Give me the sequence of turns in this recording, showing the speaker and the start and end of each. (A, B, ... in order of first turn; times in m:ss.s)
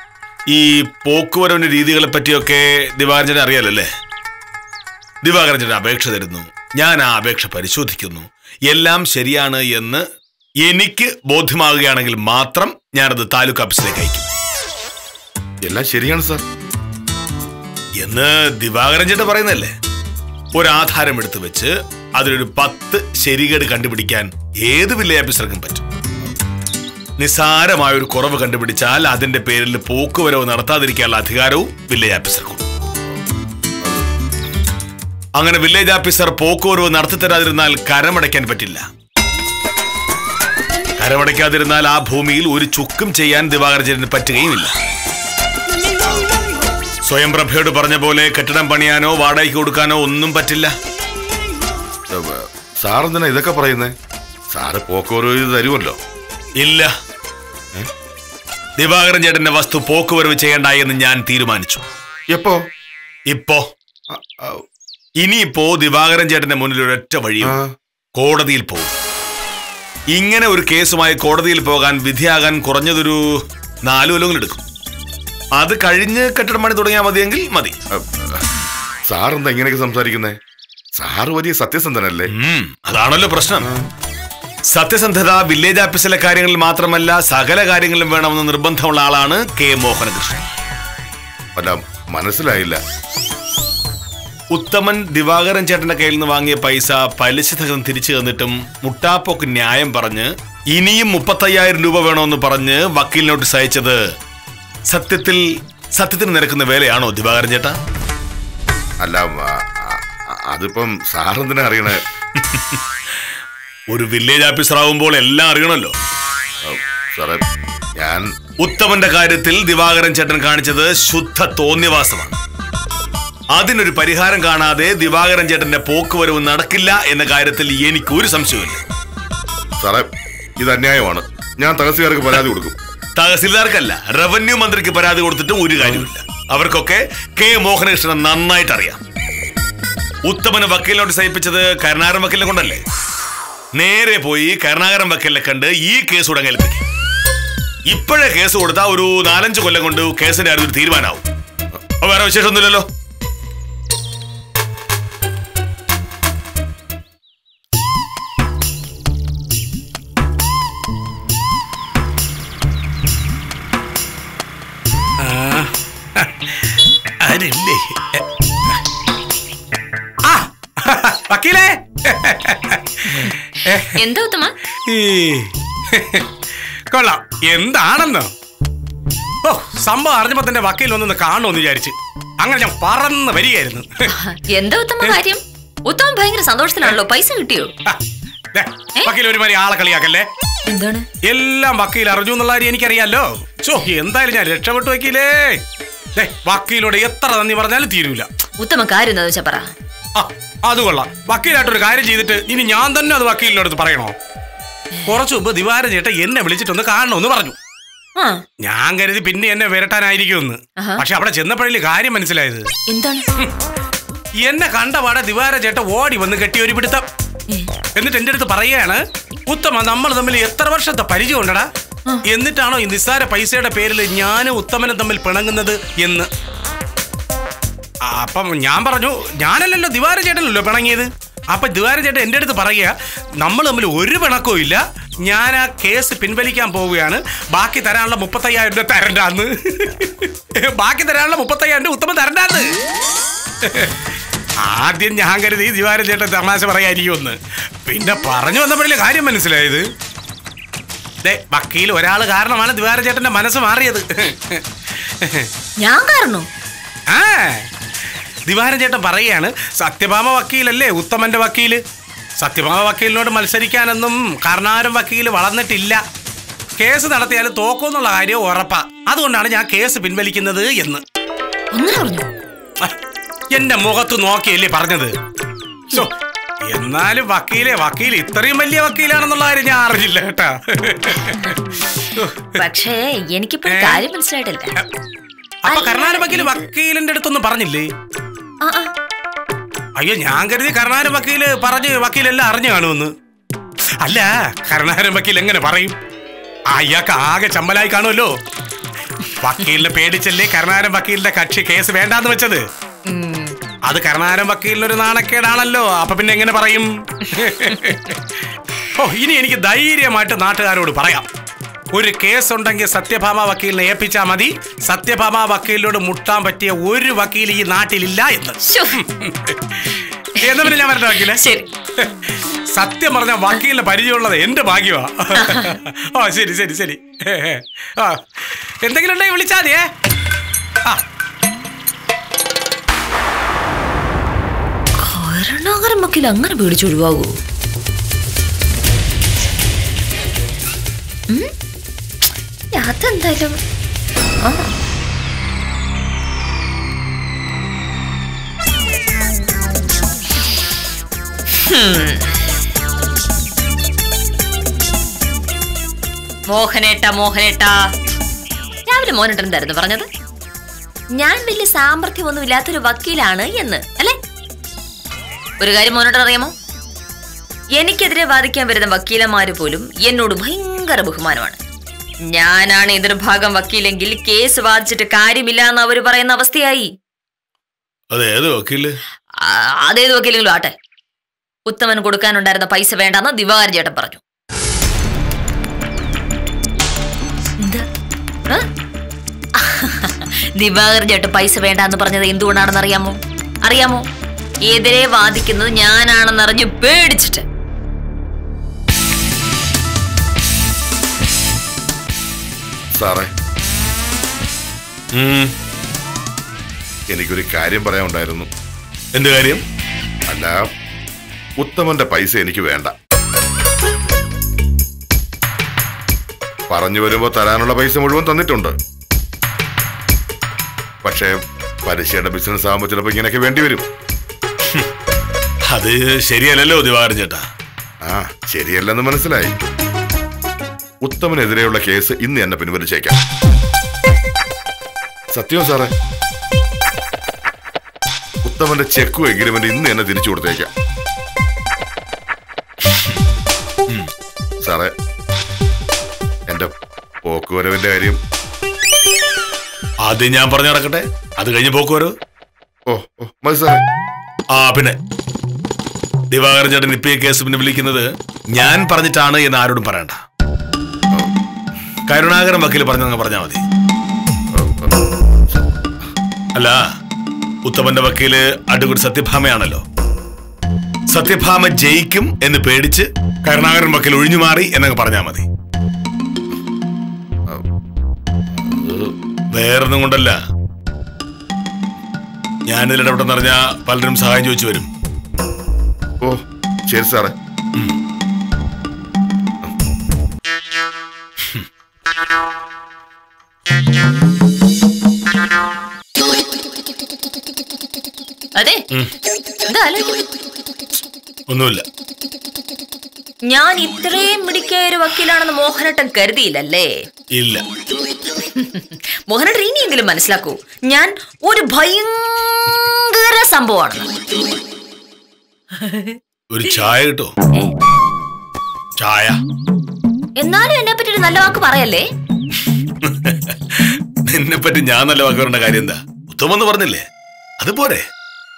0:00.5-0:03.9 A
0:05.2-0:10.0 A
0:10.6-0:14.3 A
0:15.6-0:16.4 B
0:18.0-0:19.7 A
0:20.5-0:25.8 A
0:27.2-0:32.6 A
0:35.4-0:38.8 A
0:41.0-0:44.7 A
0:47.0-0:50.7 A
0:52.1-0:53.9 B
0:54.5-0:56.0 B
0:56.6-0:56.9 A
0:58.8-1:01.8 A
1:02.3-1:02.6 B
1:03.3-1:03.7 A
1:04.1-1:04.6 B
1:05.2-1:07.6 A
1:07.4-1:07.7 B
1:08.2-1:08.9 A
1:10.1-1:13.2 A
1:13.8-1:14.6 A
1:15.6-1:17.8 A
1:17.9-1:18.4 B
1:19.1-1:20.4 B
1:21.0-1:22.3 B
1:22.3-1:23.7 A
1:23.6-1:23.9 B
1:24.7-1:30.4 A
1:31.6-1:32.8 B
1:34.5-1:44.0 A
1:44.9-1:47.8 A
1:49.0-1:52.0 B
1:52.4-1:53.3 A
1:53.9-1:55.9 A
1:56.6-1:57.4 B
1:58.0-1:58.3 B
1:58.6-2:02.4 A
2:03.6-2:08.8 A
2:09.8-2:12.8 B
2:13.2-2:19.0 A
2:15.8-2:16.1 B
2:20.2-2:22.8 A
2:23.7-2:26.8 A
2:27.9-2:31.2 A
2:32.0-2:32.9 A
2:45.2-2:48.8 C
2:50.2-2:54.0 C
2:53.1-2:54.5 D
2:54.9-2:56.3 C
2:56.9-2:58.3 C
2:59.4-3:03.9 C
3:04.1-3:07.7 D
3:08.5-3:10.3 C
3:10.7-3:11.1 D
3:11.2-3:15.6 C
3:16.2-3:18.3 C
3:18.6-3:19.7 D
3:20.2-3:24.1 C
3:25.0-3:27.6 C
3:28.2-3:28.4 D
3:28.6-3:32.7 C
3:30.8-3:31.0 D
3:32.9-3:33.3 D
3:34.4-3:37.0 C
3:38.0-3:41.7 C
3:42.2-3:46.3 C
3:48.0-4:02.7 C
4:03.6-4:04.0 C
4:04.6-4:09.8 C
4:11.2-4:15.5 C
4:15.8-4:16.5 D
4:17.1-4:17.7 C
4:18.5-4:21.8 C
4:22.4-4:26.0 C
4:26.8-4:31.0 C
4:31.7-4:32.3 D
4:33.5-4:35.1 C
4:36.7-4:41.6 C
4:42.1-4:42.5 C
4:42.6-4:44.7 D
4:43.7-4:44.0 C
4:45.6-4:47.9 C
4:45.7-4:46.7 D
4:48.6-4:48.9 D
4:50.0-4:53.1 C
4:54.0-4:56.0 C
4:56.7-4:58.3 C
4:59.4-5:02.6 C
5:03.0-5:03.5 D
5:03.8-5:08.3 C
5:08.9-5:11.2 C
5:11.9-5:21.4 C
5:18.6-5:19.0 D
5:20.4-5:21.7 D
5:22.0-5:29.9 C
5:25.4-5:25.7 D
5:35.0-5:37.3 D
5:42.7-5:43.6 D
5:44.4-5:44.7 D
5:51.5-5:52.4 D
5:56.5-5:57.8 D
5:58.9-6:00.1 D
6:01.2-6:04.2 D
6:05.6-6:06.5 D
6:07.8-6:11.6 D
6:12.3-6:16.9 D
6:18.1-6:18.9 A
6:19.4-6:20.7 D
6:21.7-6:24.2 D
6:27.6-6:27.8 D
6:29.6-6:34.0 D
6:34.7-6:37.4 D
6:43.0-6:43.3 B
6:45.1-6:45.5 A
6:47.1-6:48.5 B
6:49.2-6:49.6 A
6:50.3-6:50.6 B
6:51.6-6:52.9 B
6:56.7-6:58.7 B
7:01.0-7:03.8 B
7:05.7-7:07.4 A
7:08.0-7:09.6 B
7:11.0-7:13.2 B
7:15.3-7:15.9 B
7:18.4-7:20.7 B
7:22.8-7:23.2 A
7:24.6-7:24.9 B
7:26.5-7:26.7 B
7:27.2-7:28.2 B
7:30.0-7:32.1 A
7:32.9-7:33.8 B
7:34.5-7:35.0 A
7:36.3-7:40.2 A
7:42.1-7:43.6 A
7:44.5-7:45.0 B
7:45.5-7:46.1 B
7:46.5-7:46.8 A
7:47.6-7:49.8 A
7:51.1-7:55.4 A
7:58.5-7:59.1 B
7:59.5-8:00.4 A
8:02.7-8:04.9 A
8:06.2-8:07.3 B
8:11.4-8:11.7 A
8:18.6-8:18.8 D
8:19.6-8:20.1 D
8:21.5-8:21.8 A
8:23.5-8:26.9 D
8:27.4-8:27.6 A
8:28.4-8:34.1 D
8:35.8-8:36.2 D
8:36.5-8:37.3 A
8:39.0-8:39.4 A
8:40.4-8:42.0 D
8:42.7-8:47.0 A
8:47.6-8:48.1 A